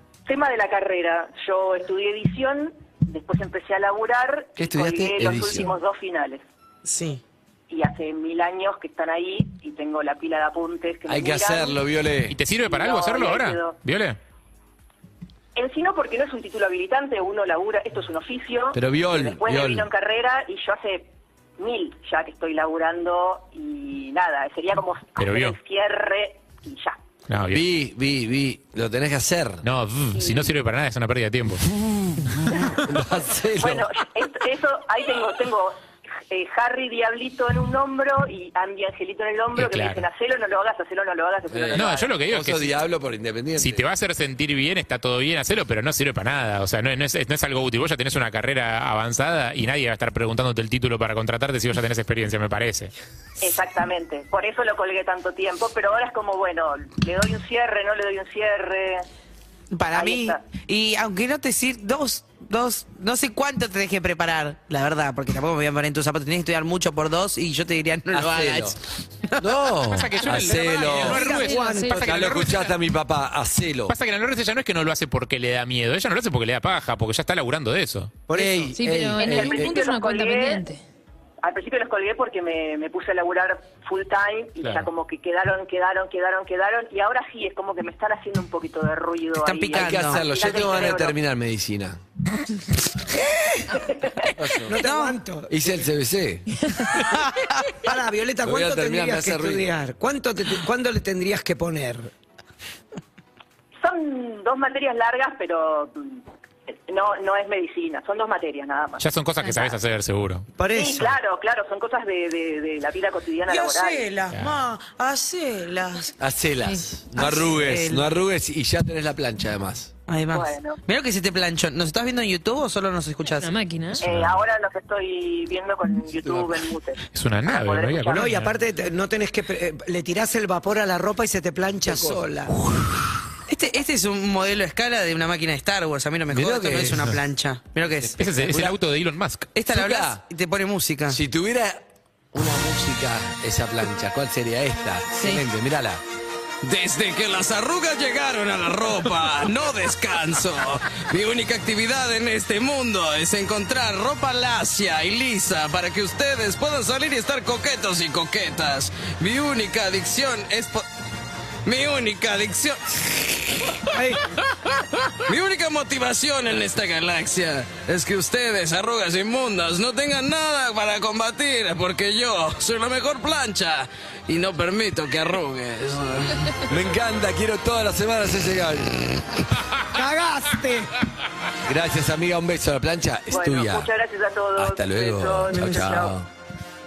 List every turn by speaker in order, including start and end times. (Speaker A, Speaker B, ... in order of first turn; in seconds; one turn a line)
Speaker A: 0.3-6.4
Speaker B: 4.6-5.8
Speaker C: 6.8-7.2
Speaker A: 7.7-11.8
Speaker B: 11.1-12.4
Speaker D: 12.3-14.2
Speaker A: 12.7-13.8
Speaker A: 15.6-27.0
Speaker B: 18.7-19.9
Speaker D: 25.2-25.6
Speaker D: 27.3-27.6
Speaker B: 27.5-29.7
Speaker D: 29.6-31.6
Speaker A: 30.1-30.5
Speaker B: 31.6-34.0
Speaker A: 33.6-42.2
Speaker D: 39.5-40.1
Speaker B: 41.5-43.9
Speaker D: 41.8-42.8
Speaker D: 43.6-52.9
Speaker A: 53.4-59.1
Speaker C: 59.7-69.5
Speaker A: 59.9-60.5
Speaker B: 68.1-68.8
Speaker B: 69.4-71.3
Speaker D: 69.9-72.8
Speaker E: 70.7-72.5
Speaker F: 71.6-71.8
Speaker B: 71.8-73.9
Speaker D: 73.9-78.1
Speaker E: 78.3-78.7
Speaker B: 78.3-79.8
Speaker F: 78.8-80.8
Speaker A: 79.2-80.7
Speaker A: 81.4-91.2
Speaker D: 84.6-84.9
Speaker C: 89.4-90.3
Speaker B: 89.7-92.0
Speaker E: 93.1-95.9
Speaker B: 94.4-94.8
Speaker C: 94.7-95.2
Speaker B: 95.5-96.5
Speaker C: 97.0-97.7
Speaker E: 97.8-102.1
Speaker B: 98.4-99.7
Speaker A: 103.8-106.2
Speaker A: 106.9-109.8
Speaker D: 109.0-110.5
Speaker E: 110.6-111.2
Speaker A: 110.7-114.1
Speaker C: 113.5-116.1
Speaker D: 114.3-114.6
Speaker B: 116.2-119.9
Speaker C: 117.1-118.2
Speaker C: 120.1-123.7
Speaker A: 120.3-120.8
Speaker F: 123.7-124.0
Speaker D: 124.0-124.4
Speaker A: 124.0-128.2
Speaker B: 126.2-126.6
Speaker D: 127.1-128.6
Speaker E: 128.1-132.5
Speaker B: 131.8-132.7
Speaker C: 133.5-138.2
Speaker B: 136.3-137.2
Speaker D: 136.7-137.2
Speaker B: 137.9-138.8
Speaker D: 138.2-139.5
Speaker C: 139.5-141.2
Speaker B: 139.7-140.2
Speaker B: 141.1-146.0
Speaker G: 146.6-160.8
Speaker G: 161.7-164.4
Speaker G: 165.3-176.7
Speaker B: 176.7-179.0
Speaker E: 179.8-180.9
Speaker B: 181.7-183.9
Speaker A: 183.3-186.1
Speaker B: 184.6-186.3